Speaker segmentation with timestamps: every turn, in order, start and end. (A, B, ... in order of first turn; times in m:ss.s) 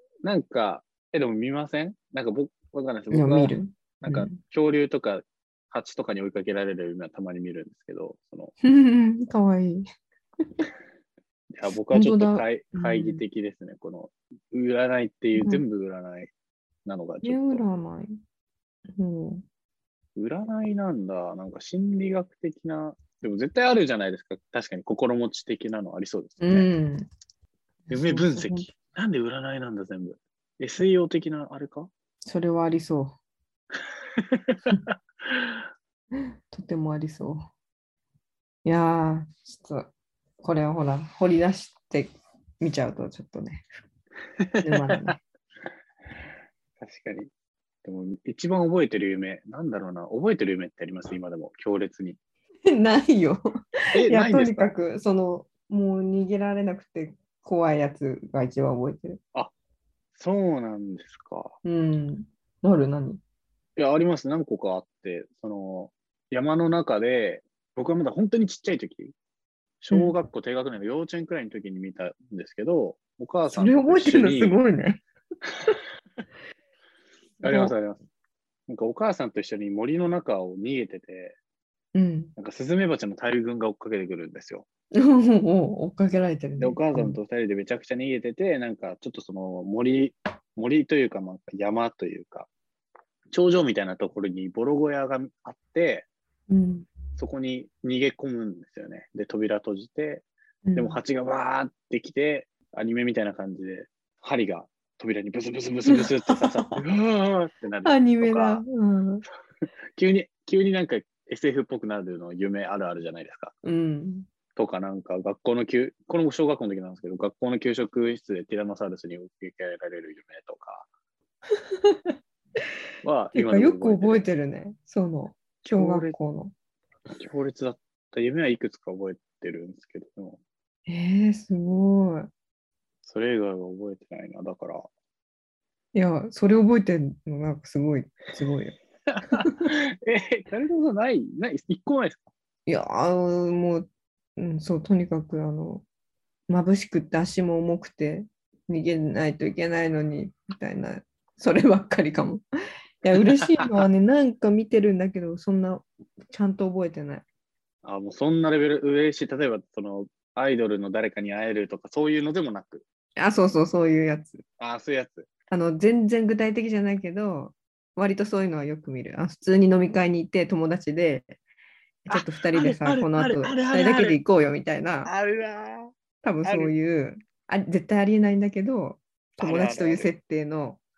0:00.2-0:08.5 A
0:03.1-0:04.4 B
0:08.6-0:09.8 B
0:11.5-0:16.3 A
0:11.9-0:13.2 B
0:15.4-0:15.6 B
0:16.8-0:17.6 A
0:17.2-0:18.1 B
0:19.0-0:19.4 B
0:20.2-0:26.7 A
0:26.4-0:27.1 B
0:27.8-0:28.7 B
0:27.9-0:31.9 A
0:32.2-0:33.2 B
0:34.4-0:34.7 A
0:36.5-0:37.4 B
0:38.6-0:43.7 B
0:44.4-0:44.7 A
0:44.6-0:45.2 B
0:46.8-0:47.3 A
0:47.8-0:52.2 A
0:52.7-0:53.4 B
0:53.9-0:54.7 A
0:54.0-0:59.2 B
1:00.1-1:01.6 A
1:01.6-1:03.2 B
1:03.8-1:09.1 A
1:09.8-1:14.6 A
1:13.5-1:15.0 B
1:17.4-1:18.0 A
1:17.4-1:17.7 B
1:18.7-1:21.4 A
1:21.9-1:22.3 B
1:22.4-1:24.7 A
1:24.9-1:27.2 B
1:26.6-1:32.5 A
1:33.3-1:36.1 A
1:36.5-1:36.9 B
1:37.2-1:48.6 A
1:40.6-1:41.0 B
1:45.9-1:46.8 B
1:47.8-1:49.2 B
1:50.0-1:53.5 A
1:53.6-1:54.3 B
1:54.6-2:00.9 A
2:01.8-2:02.1 B
2:03.0-2:04.3 A
2:03.3-2:06.5 B
2:05.6-2:06.2 A
2:07.2-2:10.4 A
2:10.9-2:12.3 B
2:13.0-2:14.8 A
2:15.9-2:18.8 B
2:19.1-2:22.2 A
2:19.3-2:19.6 B
2:22.6-2:25.8 B
2:26.5-2:32.4 B
2:33.0-2:37.2 B
2:37.8-2:42.8 A
2:43.2-2:44.4 B
2:44.6-2:45.3 A
2:45.5-2:51.4 B
2:52.0-2:55.1 B
2:52.1-2:54.2 A
2:55.0-2:55.9 A
2:56.2-3:00.8 B
2:56.4-2:56.7 A
2:59.4-3:00.1 A